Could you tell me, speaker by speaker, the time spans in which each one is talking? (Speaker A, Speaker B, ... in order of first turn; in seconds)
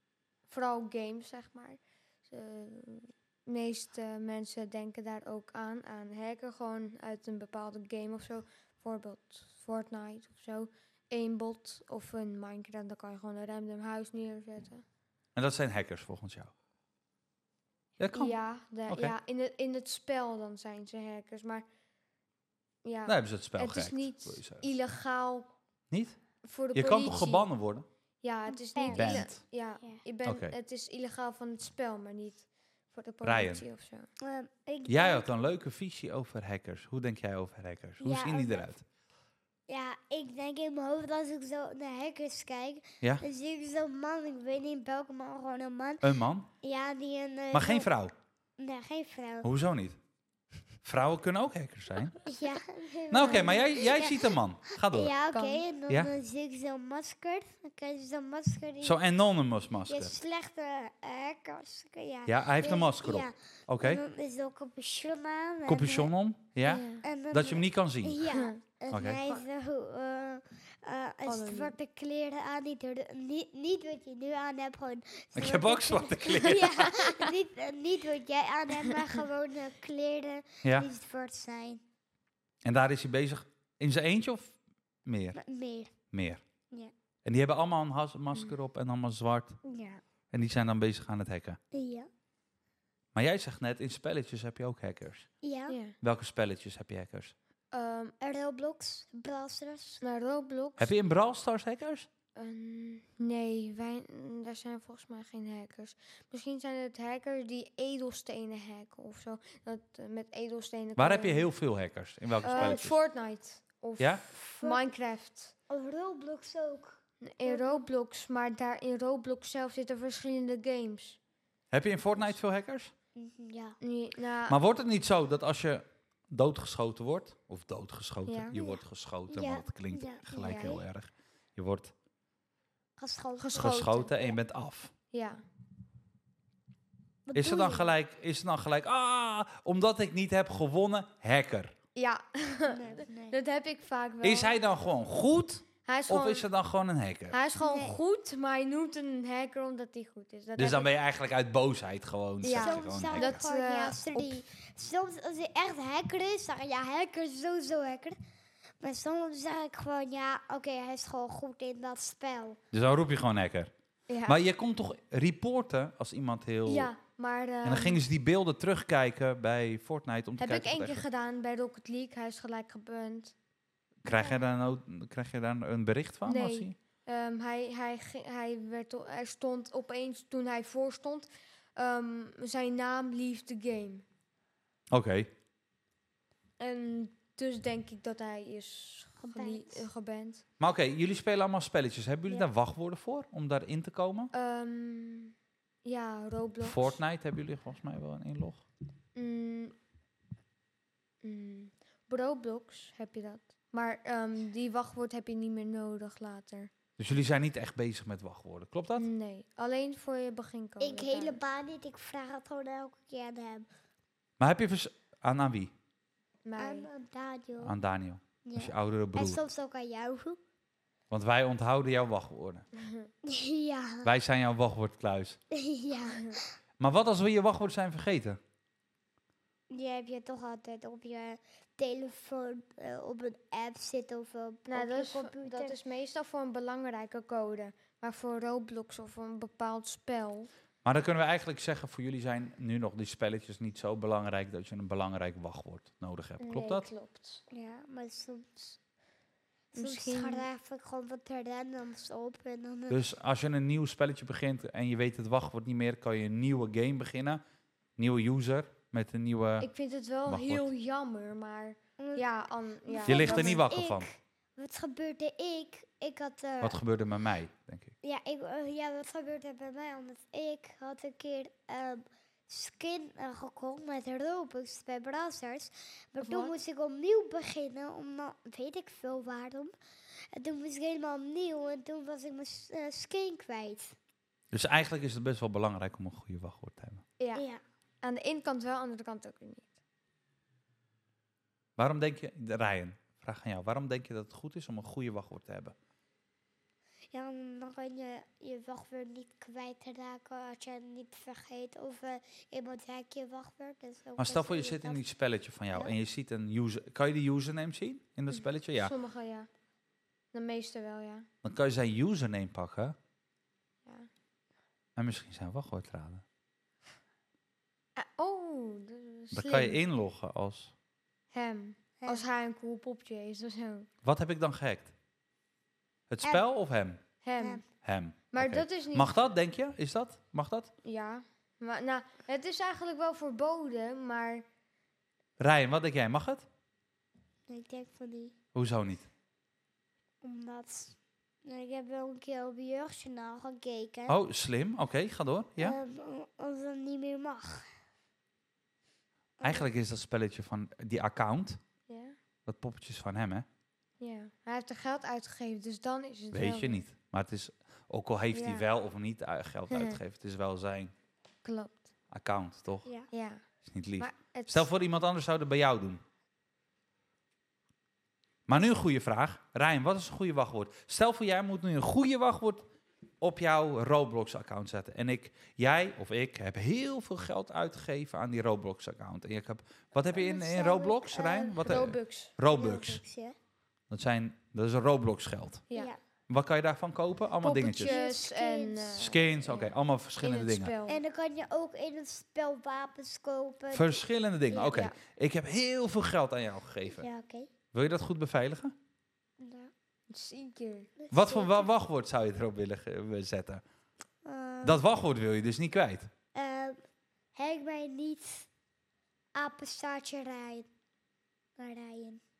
Speaker A: 0.5-14.8, 18.1-21.6, 22.8-25.5, 26.4-27.5, 28.2-34.1, 53.2-53.5, 55.3-55.6, 66.6-67.0, 68.3-68.6, 71.2-71.7, 76.5-77.3, 95.7-96.0, 97.7-98.1, 100.0-100.9, 102.3-111.5, 112.4-115.5, 117.2-121.2, 123.8-124.6, 128.3-128.5, 130.4-130.8, 133.4-134.3, 135.1-135.4, 141.9-144.6, 145.8-146.4, 147.3-150.9, 152.4-154.4, 164.1-164.4, 166.7-168.0, 170.4-173.3, 176.2-184.0, 186.6-190.4, 194.3-195.3, 195.8-197.0, 199.2-199.8, 201.2-206.7, 209.0-211.4, 216.4-216.9, 222.8-223.1, 234.7-240.5, 246.4-247.4, 249.7-250.5, 259.6-263.6, 276.2-276.5, 287.2-287.4, 288.0-289.7, 308.3-309.5, 310.3-311.3, 317.9-319.8, 321.3-323.9, 327.2-327.6, 328.3-329.2, 330.8-334.4, 351.9-352.1, 354.0-356.8, 358.3-358.7, 359.7-360.0, 361.4-361.8, 363.1-363.4, 364.0-364.7, 381.2-382.3, 387.4-391.0, 394.5-394.9, 400.1-400.9
Speaker B: 15.3-16.5, 18.0-18.4, 18.9-19.1, 23.1-24.6, 25.9-26.2, 26.7-27.9, 28.9-29.4, 30.2-30.5, 33.2-33.6, 34.9-38.8, 46.0-46.5, 47.5-48.1, 49.4-50.0, 50.8-52.2, 53.1-55.1, 55.9-56.1, 58.8-60.1, 62.2-64.0, 65.7-68.2, 68.9-69.2, 75.3-76.7, 80.6-80.9, 82.6-85.4, 86.1-86.4, 87.2-89.6, 90.3-91.6, 93.1-95.3, 96.0-97.3, 100.8-102.1, 111.0-113.0, 121.7-122.9, 124.5-131.9, 133.5-134.9, 137.3-141.7, 144.2-147.4, 150.6-153.4, 162.7-163.7, 164.2-166.9, 167.6-171.0, 174.0-176.7, 184.9-185.3, 190.6-194.3, 196.6-198.6, 207.0-209.1, 214.4-215.7, 217.6-219.4, 221.1-222.7, 224.0-225.4, 226.8-228.4, 240.8-246.9, 252.9-257.4, 258.0-259.7, 260.3-260.7, 263.1-264.1, 266.6-267.9, 284.5-287.0, 291.8-295.7, 304.2-308.9, 311.4-312.9, 314.9-316.2, 319.3-320.7, 324.0-324.9, 326.1-327.0, 327.8-330.7, 335.4-336.5, 338.5-339.1, 344.1-345.8, 349.4-351.6, 352.4-353.4, 356.3-360.9, 362.1-362.9, 363.6-366.0, 368.5-372.6, 373.2-383.0, 383.9-385.6, 386.3-387.9, 389.0-390.7, 393.7-397.1, 397.7-398.7, 401.1-403.6, 404.6-406.1
Speaker C: 28.5-29.2, 34.2-35.3, 38.0-38.7, 39.7-46.0, 46.6-47.9, 48.6-49.5, 52.2-59.0, 59.9-66.1, 67.0-81.8, 85.3-85.9, 89.6-90.0, 91.7-92.1, 95.4-95.8, 98.2-100.0, 112.4-112.8, 114.3-114.9, 115.7-117.8, 123.2-123.8, 128.5-130.8, 133.0-133.9, 137.3-137.9, 142.7-143.3, 147.6-148.0, 152.5-158.2, 158.8-162.6, 189.2-189.8, 210.8-213.7, 216.6-217.7, 218.4-220.4, 223.2-224.1, 225.5-226.5, 229.7-235.8, 247.5-248.8, 249.7-253.0, 262.0-262.2, 262.9-266.8, 268.0-279.7, 280.3-283.9, 287.3-287.6, 297.1-305.0, 327.4-327.6, 337.5-338.3, 340.2-344.1, 345.6-347.7, 349.4-349.6, 380.1-381.6, 382.5-383.4, 385.7-386.0, 387.7-389.0, 390.9-394.0, 396.9-397.5, 399.4-399.7, 401.0-401.7, 404.2-404.8, 406.3-406.8, 407.3-408.5, 409.3-410.7, 411.6-412.2